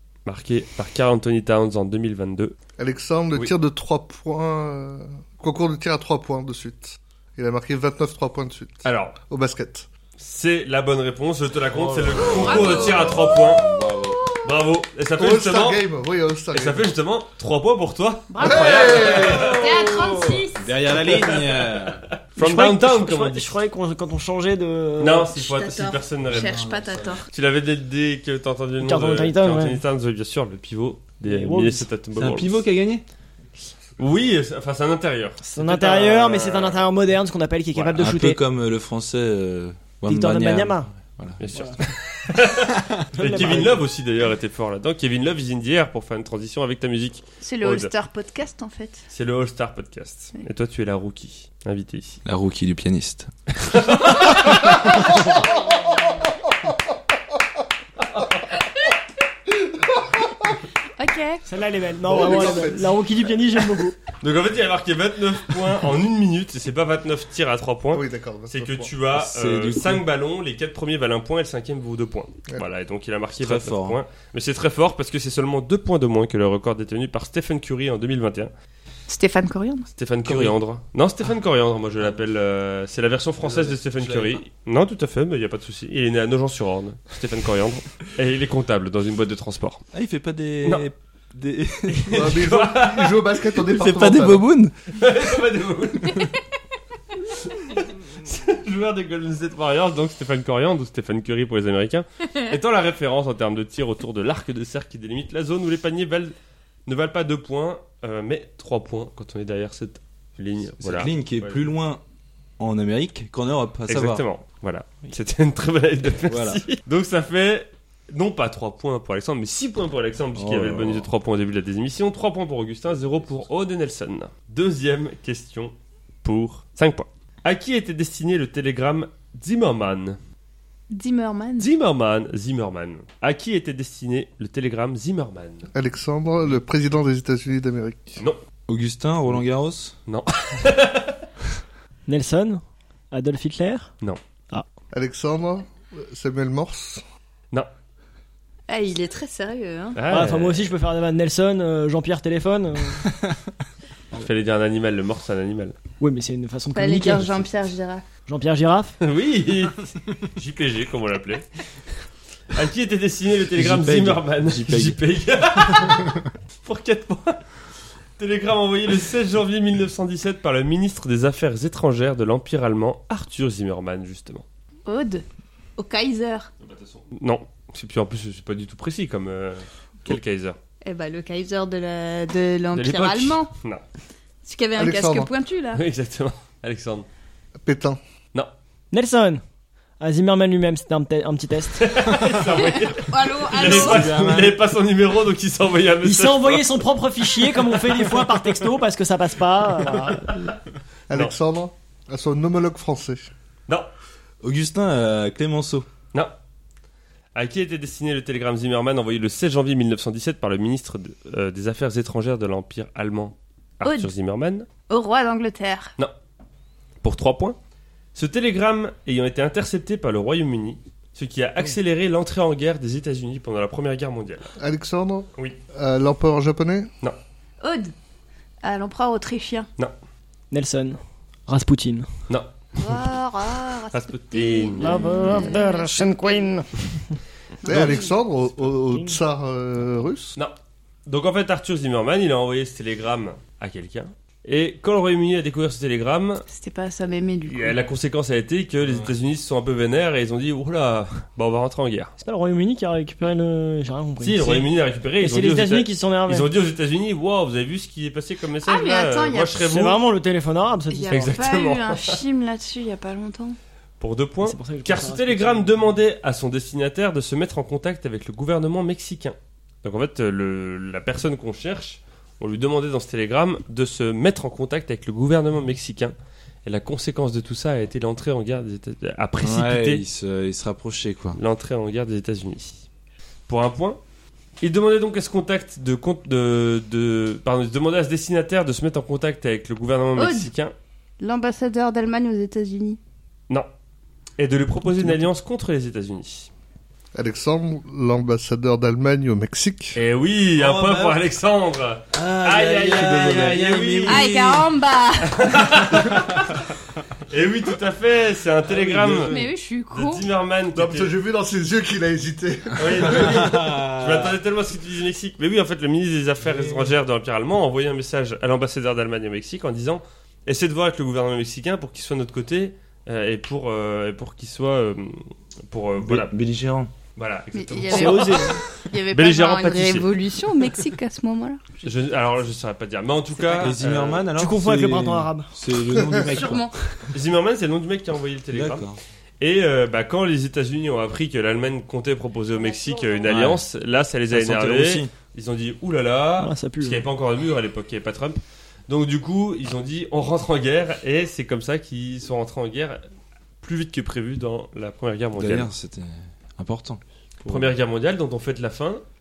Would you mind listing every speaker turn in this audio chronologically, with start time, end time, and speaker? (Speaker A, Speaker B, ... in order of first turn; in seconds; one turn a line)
Speaker A: 0.2-2.5
Speaker B: 2.8-9.8
Speaker A: 8.8-9.2
Speaker A: 10.2-13.6
Speaker C: 11.7-14.2
Speaker D: 12.2-13.3
Speaker A: 14.4-15.8
Speaker B: 15.2-16.9
Speaker A: 16.5-19.6
Speaker D: 18.3-20.7
Speaker B: 18.4-19.5
Speaker C: 18.5-22.0
Speaker A: 21.1-23.6
Speaker E: 22.4-25.3
Speaker A: 25.0-26.6
Speaker D: 25.3-27.3
Speaker C: 26.3-27.2
Speaker A: 27.3-32.6
Speaker E: 28.8-29.8
Speaker E: 31.2-31.9
Speaker C: 32.1-33.0
Speaker A: 34.0-36.8
Speaker E: 35.5-38.4
Speaker A: 37.7-38.0
Speaker C: 38.0-41.7
Speaker E: 40.0-40.9
Speaker A: 41.4-47.9
Speaker C: 42.8-43.6
Speaker E: 43.1-43.8
Speaker D: 47.4-49.0
Speaker A: 49.1-52.2
Speaker C: 52.2-53.3
Speaker A: 53.6-54.9
Speaker B: 59.7-60.6
Speaker D: 61.0-61.4
Speaker E: 61.5-64.0
Speaker B: 62.1-63.0
Speaker A: 64.2-78.5
Speaker B: 67.9-68.9
Speaker C: 69.1-70.0
Speaker C: 73.4-74.0
Speaker D: 79.1-79.9
Speaker A: 80.0-89.8
Speaker C: 80.2-80.5
Speaker C: 83.4-84.4
Speaker C: 89.9-92.3
Speaker A: 91.9-93.3
Speaker B: 92.1-94.4
Speaker C: 93.6-94.7
Speaker A: 94.9-96.3
Speaker A: 97.5-106.3
Speaker A: 106.8-111.6
Speaker C: 110.8-112.0
Speaker C: 112.6-114.2
Speaker A: 113.9-130.2
Speaker C: 116.3-116.6
Speaker C: 120.3-121.1
Speaker D: 130.9-131.7
Speaker A: 131.6-135.7
Speaker B: 135.7-138.2
Speaker C: 138.7-139.9
Speaker A: 140.1-141.2
Speaker E: 142.1-143.9
Speaker B: 144.9-147.0
Speaker D: 148.7-150.0
Speaker A: 149.9-150.7
Speaker E: 150.1-153.1
Speaker C: 153.1-153.4
Speaker A: 154.1-155.8
Speaker E: 156.0-157.4
Speaker D: 156.7-158.0
Speaker E: 158.3-158.9
Speaker A: 159.0-161.4
Speaker A: 162.5-167.4
Speaker C: 163.5-165.0
Speaker A: 168.2-174.4
Speaker D: 174.8-175.2
Speaker D: 175.8-176.5
Speaker A: 176.6-180.6
Speaker D: 180.8-183.5
Speaker A: 182.7-183.8
Speaker D: 184.4-185.8
Speaker B: 184.8-185.3
Speaker A: 185.7-187.1
Speaker B: 187.6-188.0
Speaker E: 188.9-189.4
Speaker E: 190.0-191.9
Speaker A: 191.8-196.8
Speaker D: 192.5-194.2
Speaker C: 193.6-194.6
Speaker E: 196.0-200.5
Speaker A: 197.6-198.4
Speaker B: 201.1-203.3
Speaker C: 204.4-205.9
Speaker A: 207.3-214.7
Speaker D: 213.8-214.1
Speaker D: 214.9-215.9
Speaker A: 217.0-217.6
Speaker A: 218.1-224.5
Speaker B: 224.6-226.9
Speaker D: 227.6-227.9
Speaker D: 228.6-229.7
Speaker E: 230.5-232.1
Speaker A: 232.3-233.0
Speaker D: 232.8-236.5
Speaker A: 233.9-235.1
Speaker E: 234.8-236.9
Speaker D: 237.6-238.1
Speaker B: 237.6-240.3
Speaker A: 240.3-246.4
Speaker D: 246.5-247.8
Speaker A: 247.4-252.1
Speaker C: 248.8-249.1
Speaker E: 252.2-254.7
Speaker A: 254.2-260.0
Speaker E: 255.2-256.5
Speaker D: 258.6-259.6
Speaker E: 259.6-261.3
Speaker D: 260.9-263.6
Speaker A: 261.1-262.2
Speaker A: 264.0-276.1
Speaker E: 264.4-265.7
Speaker A: 276.6-280.0
Speaker C: 279.4-281.4
Speaker A: 281.4-282.8
Speaker A: 283.5-284.0
Speaker A: 284.6-290.7
Speaker D: 290.1-290.5
Speaker D: 291.2-293.0
Speaker A: 294.4-296.5
Speaker B: 297.1-300.0
Speaker A: 299.9-304.4
Speaker C: 300.6-301.2
Speaker C: 302.1-304.7
Speaker D: 304.1-305.8
Speaker A: 305.3-306.6
Speaker A: 307.3-309.4
Speaker C: 308.6-309.4
Speaker D: 309.2-310.3
Speaker A: 309.9-311.1
Speaker B: 310.7-313.5
Speaker A: 312.8-326.3
Speaker C: 312.9-314.4
Speaker C: 316.4-316.9
Speaker C: 326.0-326.9
Speaker A: 327.1-330.1
Speaker D: 327.5-331.7
Speaker E: 327.9-328.6
Speaker A: 331.8-334.3
Speaker C: 333.6-337.1
Speaker E: 334.3-335.5
Speaker D: 336.1-336.7
Speaker A: 337.1-338.9
Speaker C: 338.5-339.0
Speaker A: 339.4-353.0
Speaker D: 342.6-343.3
Speaker C: 343.2-343.6
Speaker C: 344.3-345.1
Speaker E: 346.4-347.0
Speaker A: 353.6-355.7
Speaker C: 355.4-357.7
Speaker A: 357.5-359.0